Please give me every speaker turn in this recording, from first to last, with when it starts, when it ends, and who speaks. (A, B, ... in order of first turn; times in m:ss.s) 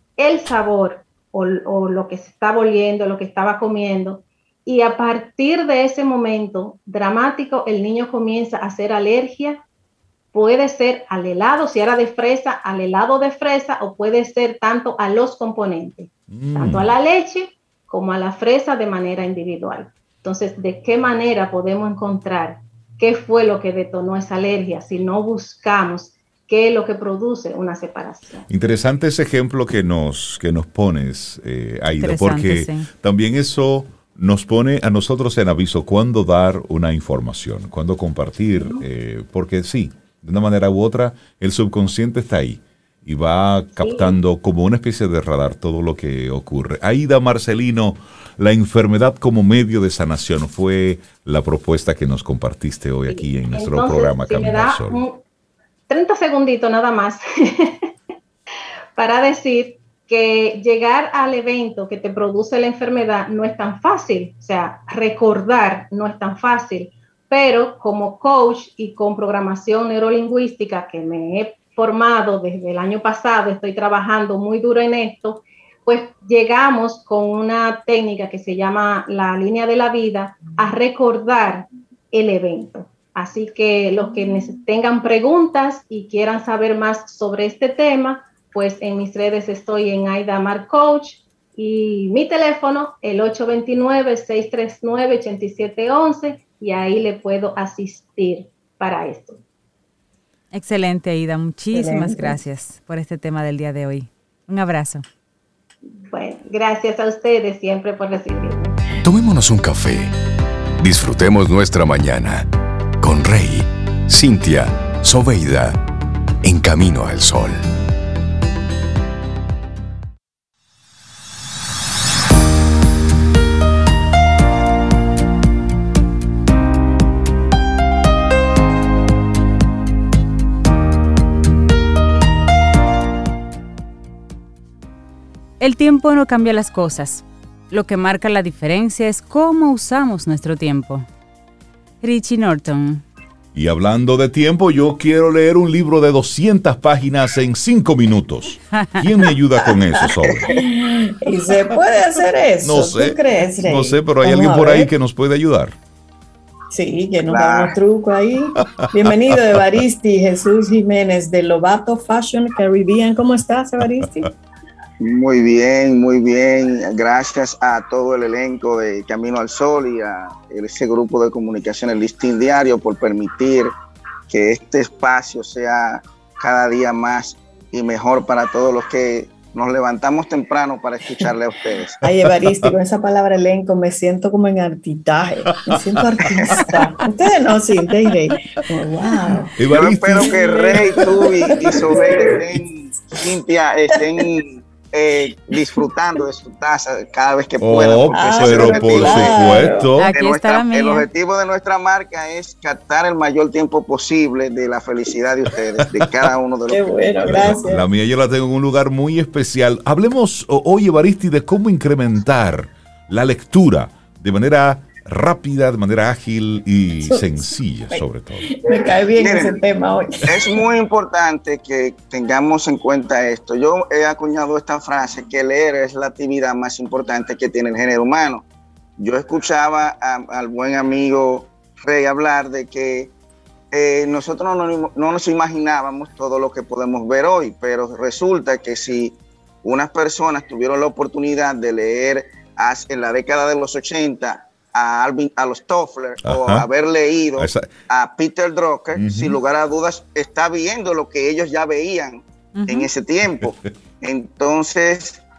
0:00.2-0:09.6 A
0:10.3-0:28.5 A
0:16.3-0:16.9 B
0:28.5-0:55.0 B
0:32.0-0:32.9 C
0:38.6-0:38.8 A
0:43.8-0:44.2 A
0:53.1-0:55.2 A
0:55.9-0:57.9 A
0:59.0-1:39.4 A
1:40.5-1:45.0 C
1:41.7-1:42.4 D
1:46.1-1:48.8 A
1:49.0-1:50.1 E
1:50.8-1:52.5 E
1:53.0-1:55.8 E
1:56.4-1:57.6 E
2:15.6-2:21.1 C
2:22.0-2:23.0 C
2:23.5-2:30.6 B
2:28.7-2:29.0 C
2:30.0-2:34.9 D
2:32.6-2:35.8 B
2:36.7-2:44.3 D
2:37.3-2:37.8 F
2:45.0-2:53.7 F
2:54.3-3:02.0 F
3:02.0-3:09.6 D
3:06.3-3:06.8 B
3:09.6-3:12.0 B
3:09.7-3:27.6 F
3:10.2-3:12.5 D
3:17.6-3:20.1 B
3:18.1-3:19.9 D
3:20.0-3:21.1 C
3:25.9-3:26.3 B
3:26.7-3:27.8 D
3:27.2-3:38.5 B
3:37.0-3:40.6 D
3:39.2-3:39.6 F
3:40.3-3:48.5 F
3:49.0-3:53.1 F
3:53.7-4:15.2 F
4:06.2-4:06.7 B
4:07.4-4:07.7 B
4:08.9-4:09.4 B
4:12.6-4:12.9 C
4:13.3-4:13.6 B